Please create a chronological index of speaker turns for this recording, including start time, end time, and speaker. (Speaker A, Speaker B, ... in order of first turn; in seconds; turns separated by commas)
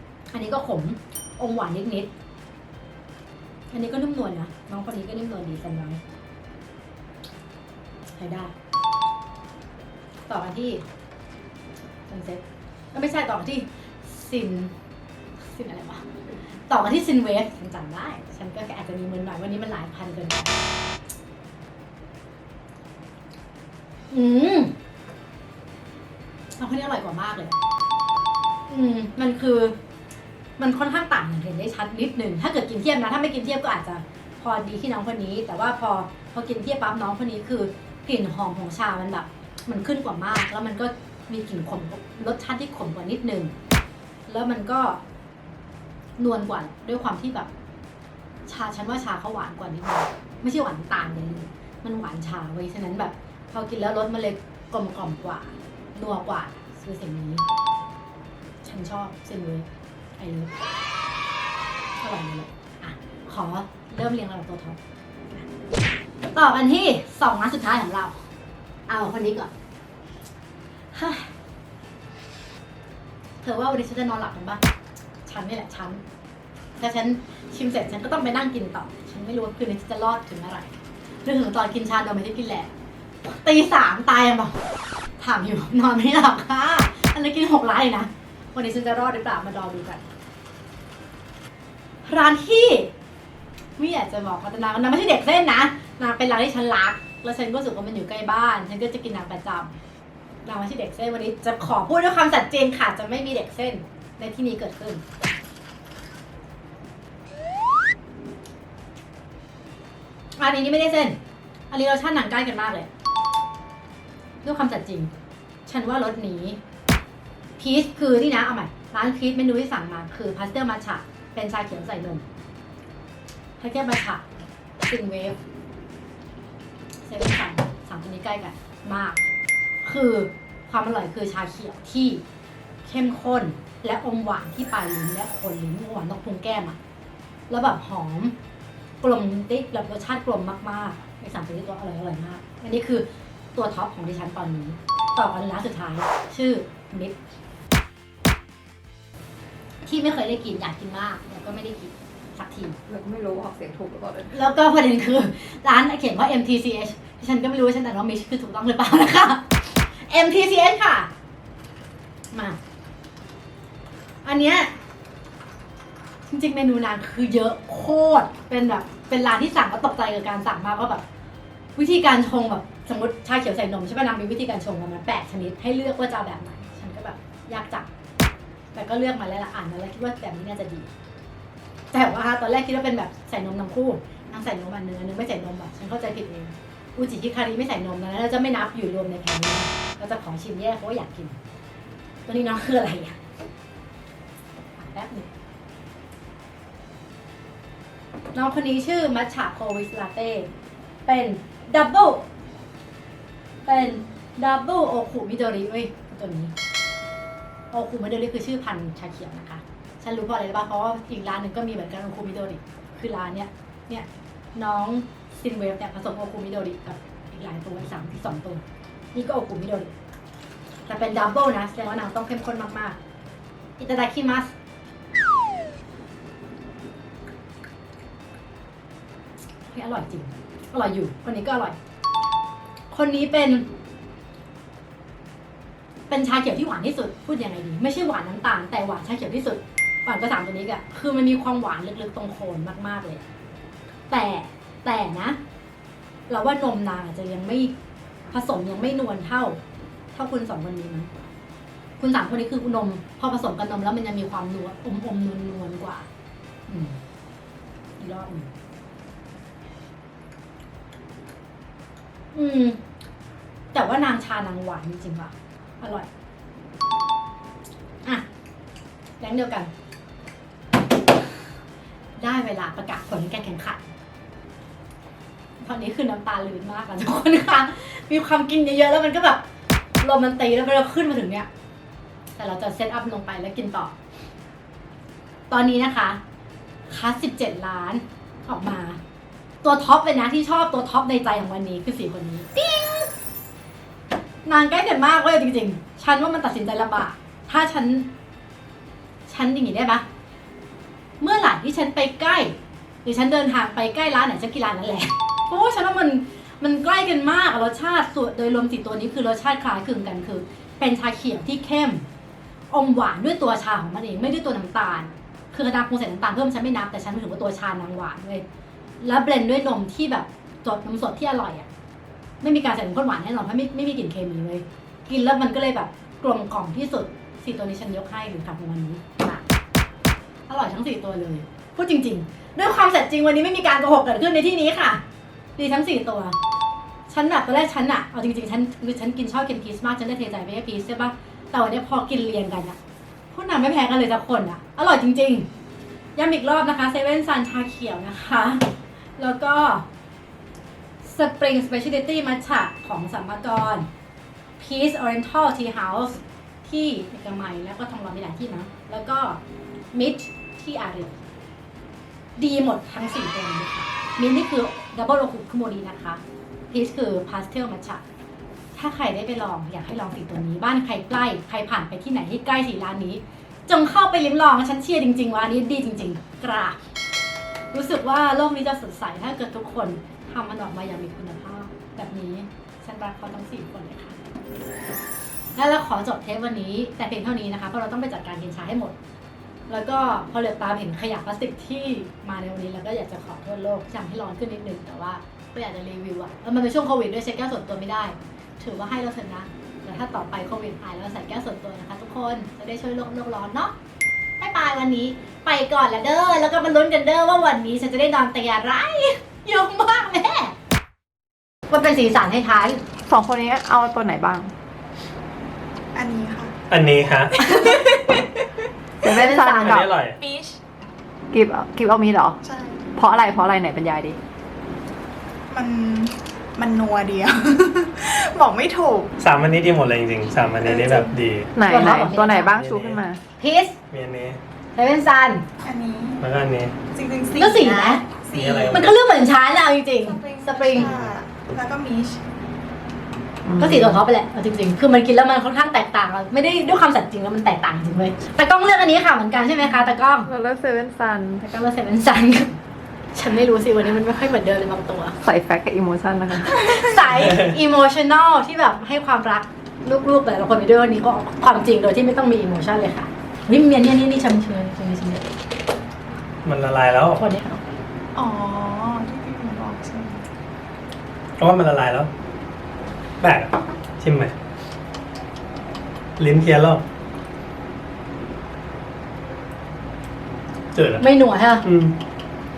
Speaker A: 0.3-2.1, Speaker A: 3.7-6.0, Speaker A: 8.2-8.5, Speaker A: 10.3-10.8, Speaker A: 12.1-12.4, Speaker A: 12.9-14.7, Speaker A: 15.4-16.1, Speaker A: 16.7-20.6, Speaker A: 24.1-24.8, Speaker A: 26.6-27.6, Speaker A: 28.7-29.8, Speaker A: 30.6-43.5, Speaker A: 44.3-45.0, Speaker A: 46.2-47.5, Speaker A: 48.5-57.4, Speaker A: 58.6-59.6, Speaker A: 60.2-60.5, Speaker A: 62.0-64.8, Speaker A: 66.3-68.2, Speaker A: 68.9-69.5, Speaker A: 70.9-71.3, Speaker A: 73.4-74.6, Speaker A: 75.2-76.0, Speaker A: 76.8-80.7, Speaker A: 81.2-82.7, Speaker A: 83.2-84.6, Speaker A: 85.2-90.0, Speaker A: 92.0-92.9, Speaker A: 93.8-99.8, Speaker A: 100.4-105.0, Speaker A: 110.4-111.2, Speaker A: 111.7-112.9, Speaker A: 114.4-115.1, Speaker A: 115.7-116.6, Speaker A: 117.6-122.2, Speaker A: 123.6-124.2, Speaker A: 124.8-125.4, Speaker A: 127.0-129.3, Speaker A: 129.8-132.2, Speaker A: 132.8-136.8, Speaker A: 137.5-138.3, Speaker A: 139.0-147.2, Speaker A: 149.8-152.8, Speaker B: 152.8-154.4, Speaker A: 154.3-161.1, Speaker A: 162.3-162.6, Speaker A: 164.2-164.7, Speaker A: 166.3-171.0, Speaker A: 171.8-177.9, Speaker A: 178.7-180.9, Speaker A: 181.9-191.4, Speaker A: 192.2-193.2, Speaker A: 194.8-195.3, Speaker A: 198.3-200.5, Speaker A: 201.1-202.2, Speaker A: 203.7-206.5, Speaker A: 207.7-218.6, Speaker A: 219.1-219.9, Speaker A: 220.9-223.0, Speaker A: 223.8-224.5, Speaker A: 229.7-231.8, Speaker A: 232.9-233.7, Speaker A: 236.1-243.2, Speaker A: 244.1-245.4, Speaker A: 246.3-247.7, Speaker A: 248.3-249.6, Speaker A: 250.1-251.2, Speaker A: 252.0-256.1, Speaker A: 256.7-257.0, Speaker A: 258.0-258.5, Speaker A: 262.3-262.8, Speaker A: 263.7-266.1, Speaker A: 269.2-269.7, Speaker A: 272.2-273.9, Speaker A: 275.6-279.4, Speaker A: 280.0-281.5, Speaker A: 282.4-283.9, Speaker A: 285.5-286.2, Speaker A: 286.9-289.0, Speaker A: 289.6-293.1, Speaker A: 294.4-298.1, Speaker A: 299.3-300.0, Speaker A: 301.2-312.1, Speaker A: 312.7-318.4, Speaker A: 319.0-321.7, Speaker A: 322.4-329.4, Speaker A: 330.5-335.0, Speaker A: 335.6-336.4, Speaker A: 337.1-342.8, Speaker A: 343.3-345.5, Speaker A: 346.1-349.8, Speaker A: 351.0-353.9, Speaker A: 354.6-359.4, Speaker A: 359.9-361.2, Speaker A: 362.4-368.0, Speaker A: 368.7-376.8, Speaker A: 377.7-384.2, Speaker A: 385.6-388.9, Speaker A: 389.7-403.7, Speaker A: 404.4-410.5, Speaker A: 411.7-412.8, Speaker B: 413.1-414.5, Speaker C: 415.9-416.6, Speaker D: 416.7-417.4, Speaker C: 417.4-418.3, Speaker B: 419.0-419.9, Speaker A: 419.0-419.8, Speaker D: 419.5-420.2, Speaker C: 420.2-420.6, Speaker B: 421.3-422.4, Speaker C: 422.4-422.9, Speaker B: 422.9-424.2, Speaker C: 425.5-429.1, Speaker D: 429.2-431.5, Speaker C: 430.6-431.1, Speaker B: 431.5-433.2, Speaker A: 431.6-432.6, Speaker D: 432.4-433.0, Speaker A: 433.4-433.8, Speaker D: 433.9-434.4, Speaker A: 434.7-435.4, Speaker C: 435.6-436.2, Speaker D: 436.2-436.7, Speaker C: 436.9-438.9, Speaker A: 437.3-438.0, Speaker D: 438.3-438.9, Speaker A: 438.7-440.9, Speaker C: 440.0-442.2, Speaker B: 443.4-444.0, Speaker A: 443.6-450.3, Speaker B: 450.2-451.4, Speaker A: 451.4-452.6, Speaker A: 453.1-455.2, Speaker B: 455.2-456.9, Speaker A: 456.6-465.2, Speaker D: 466.4-467.2, Speaker A: 467.2-467.6, Speaker C: 468.1-470.2, Speaker D: 471.4-472.1, Speaker D: 473.2-474.3, Speaker D: 476.2-476.8, Speaker D: 480.7-481.0, Speaker A: 481.0-481.6, Speaker D: 481.6-481.9